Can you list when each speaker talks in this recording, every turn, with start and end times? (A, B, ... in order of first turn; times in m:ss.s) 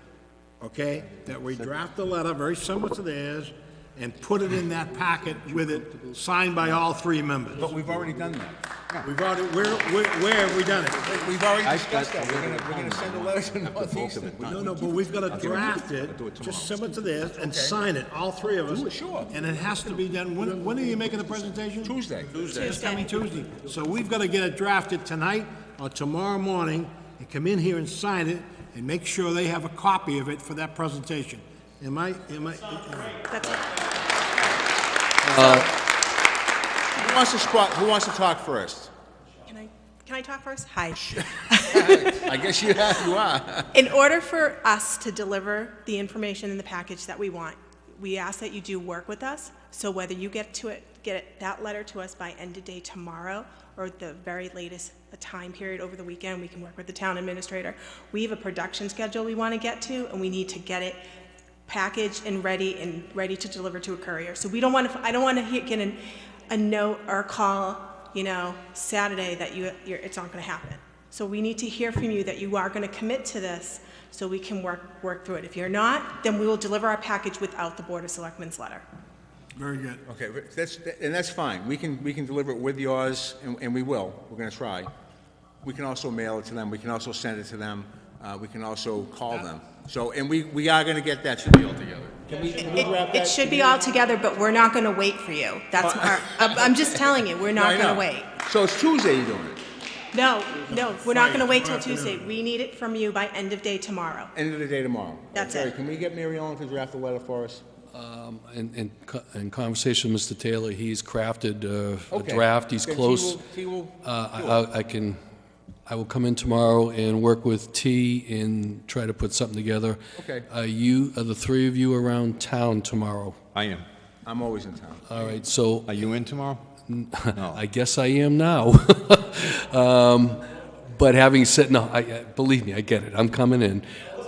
0:00.6-0:07.8 A
0:07.6-0:08.6 B
0:09.0-0:11.1 A
0:11.0-0:15.7 B
0:11.6-0:14.5 C
0:14.4-0:33.2 A
0:15.3-0:17.0 C
0:17.3-0:17.8 B
0:18.7-0:19.3 B
0:21.8-0:22.4 B
0:22.5-0:23.0 D
0:33.3-0:33.7 D
0:35.3-0:35.7 E
0:36.9-0:38.9 B
0:39.5-0:42.3 D
0:41.0-0:43.7 B
0:43.7-1:01.0 D
1:01.7-1:18.8 D
1:19.5-1:20.0 A
1:20.0-1:24.9 B
1:25.6-1:33.7 B
1:32.6-1:38.3 D
1:35.8-1:39.6 B
1:40.1-1:44.3 D
1:40.7-1:42.3 A
1:44.3-1:47.6 B
1:45.3-1:45.7 D
1:47.9-1:53.4 E
1:52.1-1:54.6 B
1:54.0-1:55.2 E
1:55.9-2:00.0 E
2:00.2-2:00.5 B
2:00.5-2:03.4 E
2:03.5-2:03.9 C
2:04.2-2:05.1 B
2:05.1-2:05.8 E
2:05.9-2:06.7 C
2:06.9-2:13.8 E
2:07.4-2:07.6 C